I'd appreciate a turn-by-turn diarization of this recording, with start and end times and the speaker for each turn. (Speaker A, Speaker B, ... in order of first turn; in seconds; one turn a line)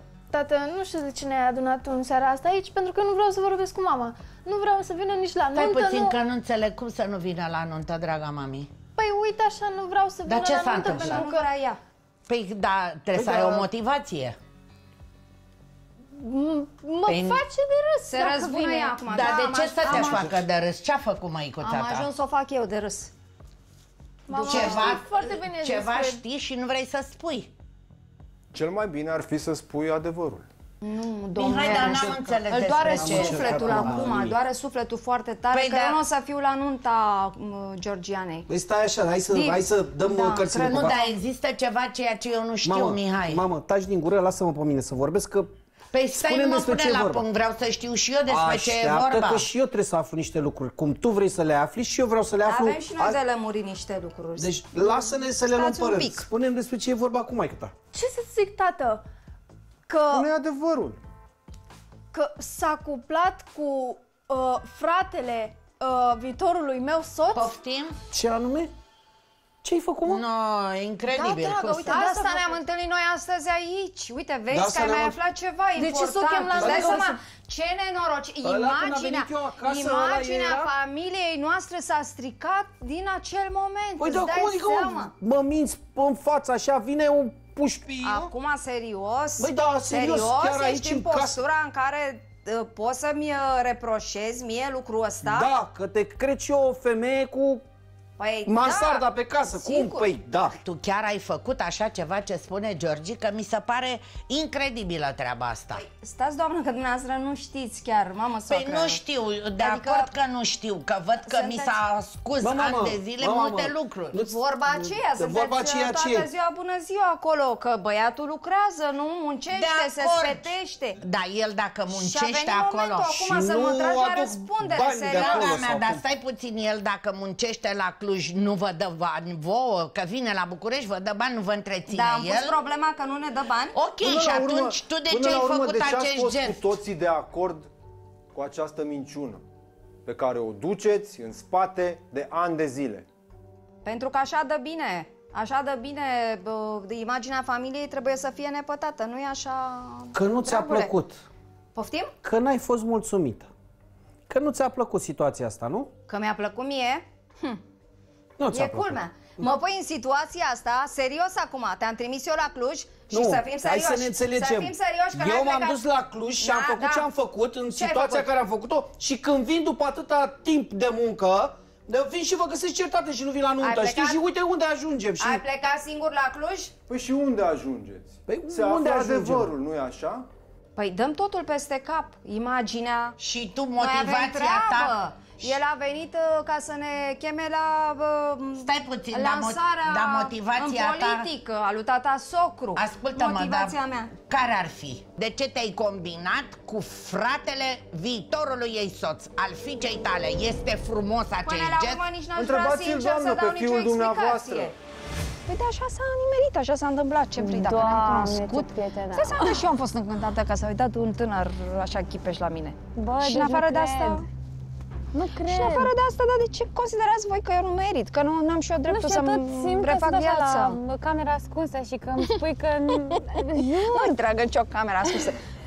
Speaker A: 0.3-6.2
Speaker B: 5.5-8.7
Speaker A: 8.9-11.4
Speaker B: 10.2-11.2
Speaker C: 10.7-11.8
Speaker B: 12.3-14.4
Speaker D: 13.1-13.7
Speaker A: 16.1-19.5
Speaker B: 17.1-17.4
Speaker C: 18.1-20.4
Speaker B: 19.0-22.1
Speaker D: 19.8-20.4
Speaker C: 21.6-23.1
Speaker A: 24.3-26.2
Speaker C: 24.3-25.0
Speaker B: 24.4-27.5
Speaker E: 28.5-30.4
Speaker C: 30.8-38.5
Speaker B: 31.4-34.0
Speaker D: 31.5-34.4
Speaker B: 35.5-36.0
Speaker D: 38.5-41.1
Speaker C: 39.3-41.0
Speaker B: 40.6-43.5
Speaker D: 42.6-45.5
Speaker B: 45.9-49.5
Speaker D: 46.1-47.2
Speaker D: 48.3-53.2
Speaker C: 52.4-56.2
Speaker D: 54.4-57.7
Speaker A: 57.9-59.0
Speaker A: 59.9-60.3
Speaker E: 60.1-61.0
Speaker A: 62.1-67.6
Speaker B: 67.3-68.0
Speaker D: 68.1-68.7
Speaker D: 69.6-70.2
Speaker B: 70.0-72.0
Speaker C: 71.1-85.1
Speaker A: 71.7-72.6
Speaker D: 74.5-75.2
Speaker A: 75.8-77.2
Speaker D: 76.5-77.1
Speaker D: 78.4-80.7
Speaker D: 84.0-88.3
Speaker C: 88.0-95.5
Speaker D: 89.4-91.4
Speaker D: 95.2-97.6
Speaker C: 98.2-100.4
Speaker D: 98.5-100.5
Speaker B: 100.6-105.8
Speaker C: 105.7-109.0
Speaker B: 108.5-114.2
Speaker C: 109.6-110.1
Speaker C: 111.3-111.8
Speaker D: 112.4-116.3
Speaker C: 114.1-121.0
Speaker B: 119.5-123.4
Speaker C: 121.9-125.5
Speaker D: 123.3-126.0
Speaker B: 125.0-132.6
Speaker C: 131.9-133.7
Speaker B: 133.7-136.7
Speaker E: 134.0-137.7
Speaker E: 138.3-139.4
Speaker E: 140.1-143.1
Speaker C: 143.8-150.9
Speaker D: 150.1-151.2
Speaker C: 151.7-152.1
Speaker D: 152.2-153.5
Speaker D: 154.3-155.9
Speaker C: 156.1-157.6
Speaker D: 158.4-159.0
Speaker C: 158.5-165.8
Speaker D: 163.1-175.4
Speaker C: 166.4-167.1
Speaker C: 167.7-168.3
Speaker C: 173.6-174.2
Speaker C: 175.2-176.7
Speaker E: 176.9-180.3
Speaker D: 178.3-179.5
Speaker C: 180.8-183.2
Speaker B: 183.2-184.9
Speaker C: 183.8-194.1
Speaker B: 188.6-191.3
Speaker B: 192.8-193.8
Speaker B: 194.3-202.0
Speaker C: 201.4-204.7
Speaker E: 202.4-204.7
Speaker C: 205.5-214.2
Speaker F: 207.4-209.6
Speaker F: 212.9-214.2
Speaker F: 215.1-215.9
Speaker C: 215.4-220.8
Speaker F: 218.9-224.1
Speaker C: 223.1-225.4